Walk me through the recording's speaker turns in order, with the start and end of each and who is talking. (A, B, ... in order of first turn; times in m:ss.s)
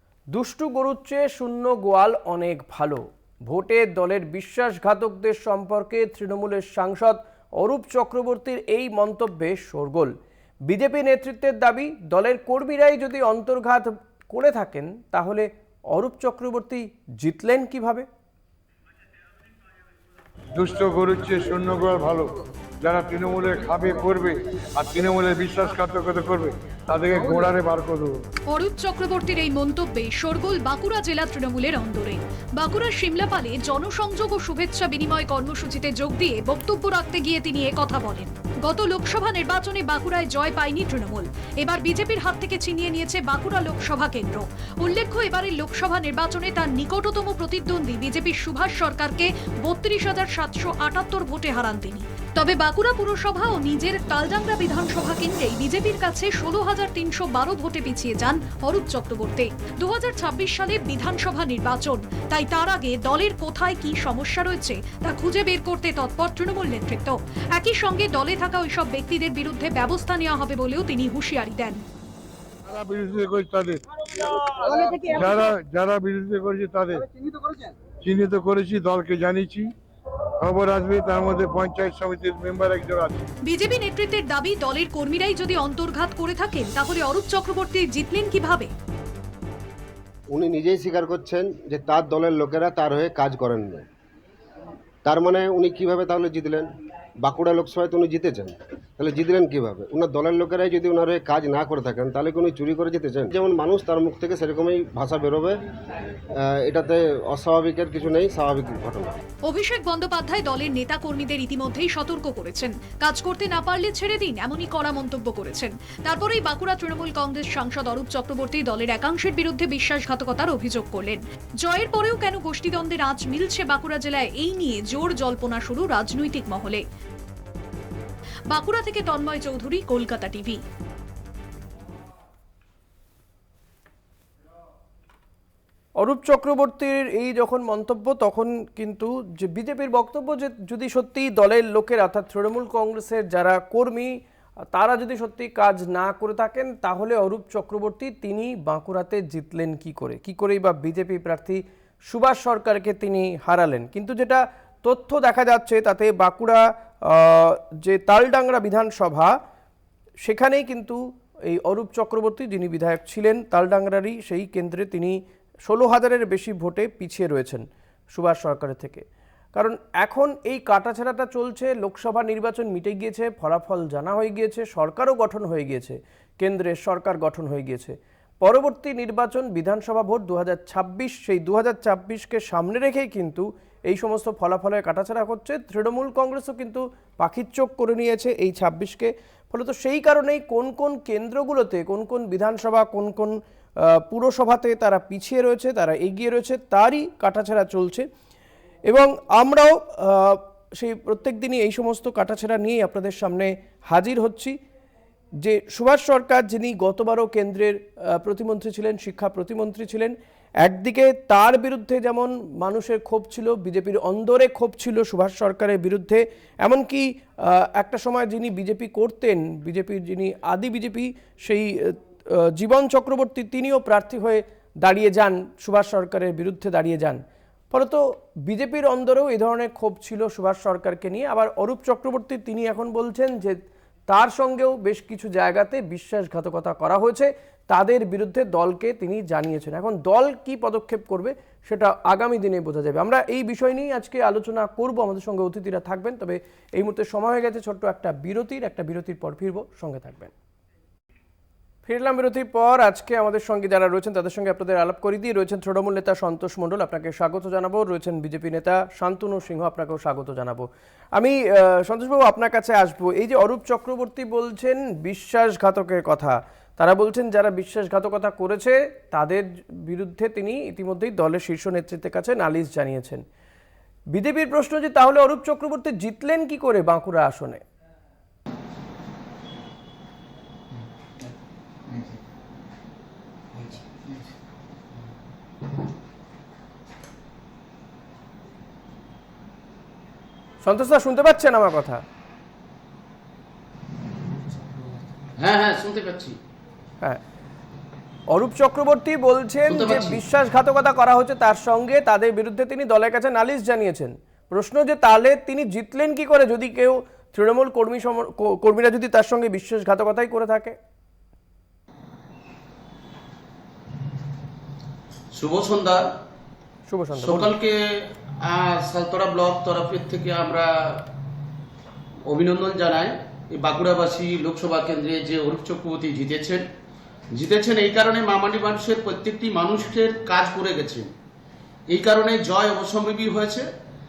0:00.3-0:10.1 A
0:10.7-0:18.1 A
0:20.5-0:28.2 B
0:28.5-1:11.8 C
1:12.6-1:13.8 B
1:14.7-1:17.1 B
1:18.0-1:19.7 B
1:20.4-1:23.2 B
1:23.4-1:28.7 C
1:30.3-1:33.9 D
1:35.0-1:36.7 D
1:37.2-1:45.6 D
1:46.4-1:49.2 D
1:49.5-2:06.8 C
2:08.5-2:10.6 C
2:16.0-2:24.1 A
2:24.7-2:39.3 A
2:40.2-2:49.0 A
2:49.5-3:13.4 A
3:13.9-3:18.1 A
3:18.9-3:24.5 A
3:25.4-3:47.2 A
3:47.7-4:10.3 A
4:11.8-4:33.2 A
4:34.1-4:37.6 A
4:50.6-4:52.0 A
4:55.4-4:56.4 E
4:58.3-5:10.8 A
4:59.7-5:00.2 E
5:15.3-5:16.0 E
5:16.9-5:17.5 A
5:17.2-5:21.0 E
5:22.3-5:26.6 E
5:27.3-5:31.1 E
5:31.9-5:33.7 E